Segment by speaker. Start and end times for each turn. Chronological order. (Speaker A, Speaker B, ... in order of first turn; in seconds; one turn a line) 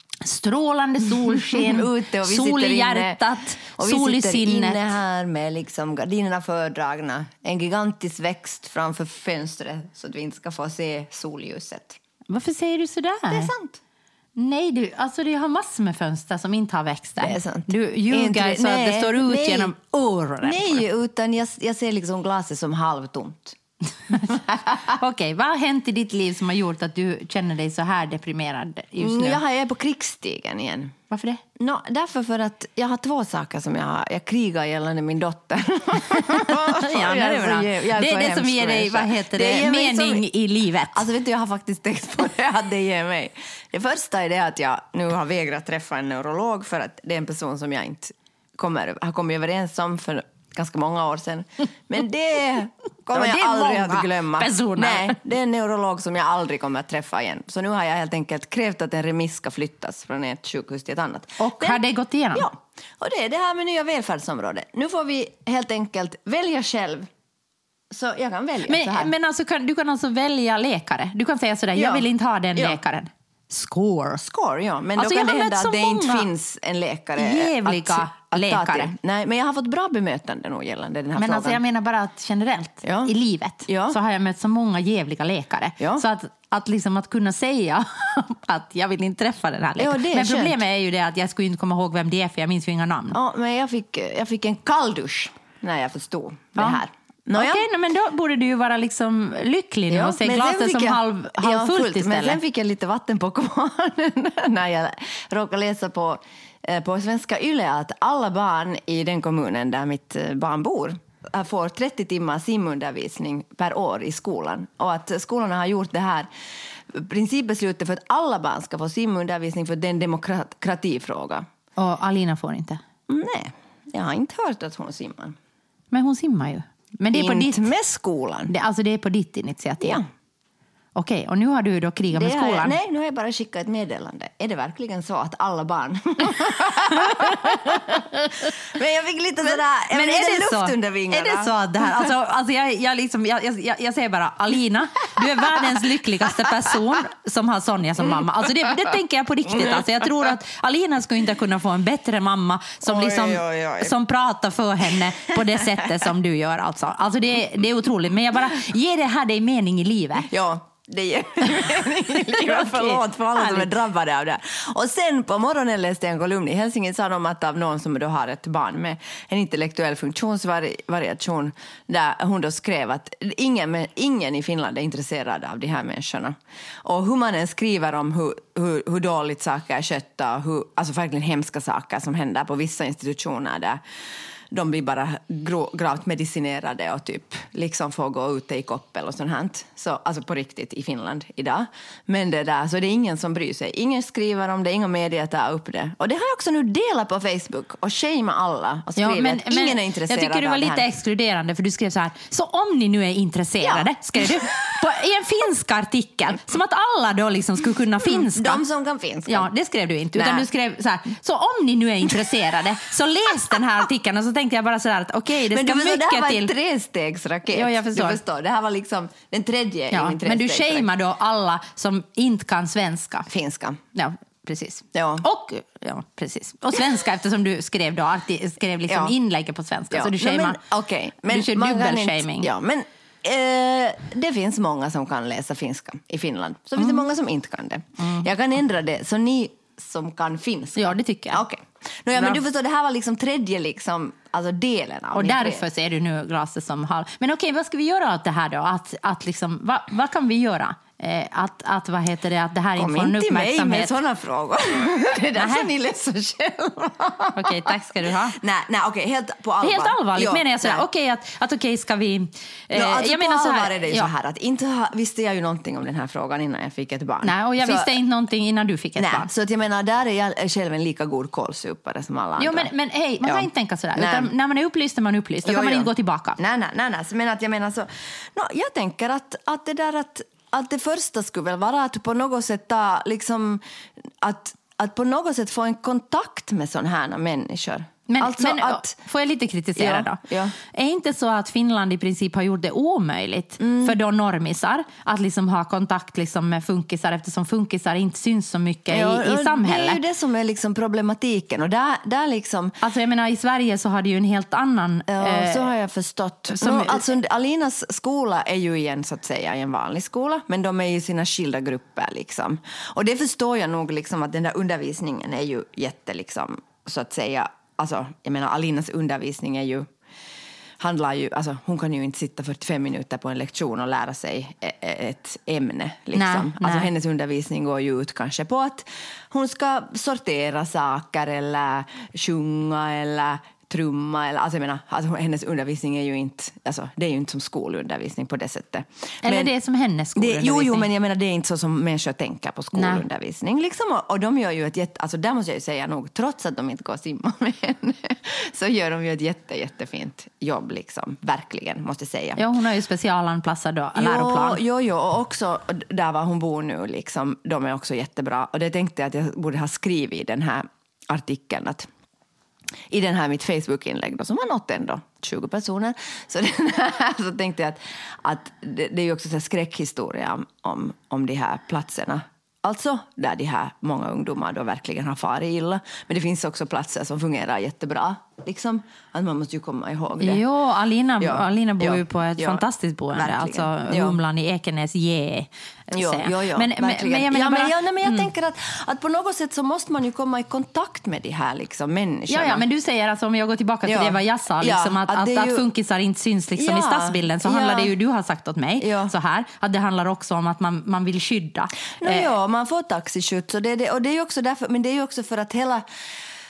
Speaker A: 0.2-4.8
Speaker B: 1.1-3.2
Speaker B: 3.8-12.0
Speaker A: 12.3-13.5
Speaker B: 13.3-13.8
Speaker A: 14.4-20.8
Speaker B: 17.2-19.7
Speaker B: 20.4-23.6
Speaker A: 24.1-29.4
Speaker B: 29.0-31.0
Speaker A: 31.1-31.4
Speaker B: 31.6-40.2
Speaker A: 36.3-41.1
Speaker B: 40.9-61.8
Speaker A: 53.1-55.2
Speaker A: 61.4-62.5
Speaker B: 62.3-67.1
Speaker B: 67.9-69.1
Speaker A: 68.7-74.2
Speaker B: 71.8-72.8
Speaker B: 74.2-81.6
Speaker A: 75.0-76.3
Speaker A: 77.2-78.9
Speaker A: 81.2-93.2
Speaker B: 82.8-83.1
Speaker B: 83.7-84.0
Speaker B: 89.8-90.6
Speaker B: 93.1-97.7
Speaker A: 96.6-96.8
Speaker A: 97.3-102.4
Speaker B: 99.9-121.5
Speaker A: 121.8-122.8
Speaker B: 123.1-125.4
Speaker A: 125.9-127.6
Speaker B: 127.1-128.5
Speaker A: 128.5-130.0
Speaker A: 131.0-132.8
Speaker B: 132.1-142.1
Speaker A: 137.1-138.1
Speaker A: 139.9-160.3
Speaker B: 145.2-146.8
Speaker B: 148.2-148.5
Speaker B: 152.8-153.9
Speaker B: 155.3-155.9
Speaker B: 160.3-183.8
Speaker A: 161.8-163.7
Speaker B: 184.5-200.8
Speaker A: 199.0-208.6
Speaker B: 203.6-204.4
Speaker B: 208.0-209.5
Speaker A: 209.3-216.5
Speaker B: 210.2-210.5
Speaker B: 215.5-220.9
Speaker A: 217.5-218.2
Speaker A: 219.9-223.3
Speaker B: 223.3-223.8
Speaker A: 223.9-230.6
Speaker B: 224.9-225.2
Speaker B: 228.9-229.2
Speaker B: 229.9-245.6
Speaker A: 231.3-232.5
Speaker A: 238.0-238.3
Speaker A: 240.8-241.4
Speaker A: 242.2-242.4
Speaker A: 245.2-253.9
Speaker B: 252.8-260.9
Speaker A: 255.4-255.7
Speaker A: 257.4-258.4
Speaker A: 259.6-264.1
Speaker B: 262.7-267.9
Speaker A: 267.2-269.3
Speaker B: 269.0-272.7
Speaker A: 272.4-276.4
Speaker B: 273.2-274.3
Speaker B: 275.4-283.6
Speaker B: 284.2-289.0
Speaker A: 288.1-300.0
Speaker B: 289.8-290.5
Speaker B: 293.6-294.0
Speaker B: 298.9-302.8
Speaker A: 302.8-305.7
Speaker B: 305.1-319.9
Speaker A: 306.5-307.0
Speaker B: 320.8-339.5
Speaker A: 326.1-326.9
Speaker A: 339.2-340.9
Speaker B: 340.2-352.4
Speaker A: 342.8-343.1
Speaker A: 352.4-354.6
Speaker B: 354.0-361.9
Speaker B: 362.9-380.4
Speaker A: 380.2-388.3
Speaker B: 381.2-384.2
Speaker B: 385.9-392.6
Speaker A: 392.3-402.3
Speaker B: 393.9-395.7
Speaker B: 396.6-397.9
Speaker B: 398.8-399.1
Speaker B: 402.0-405.9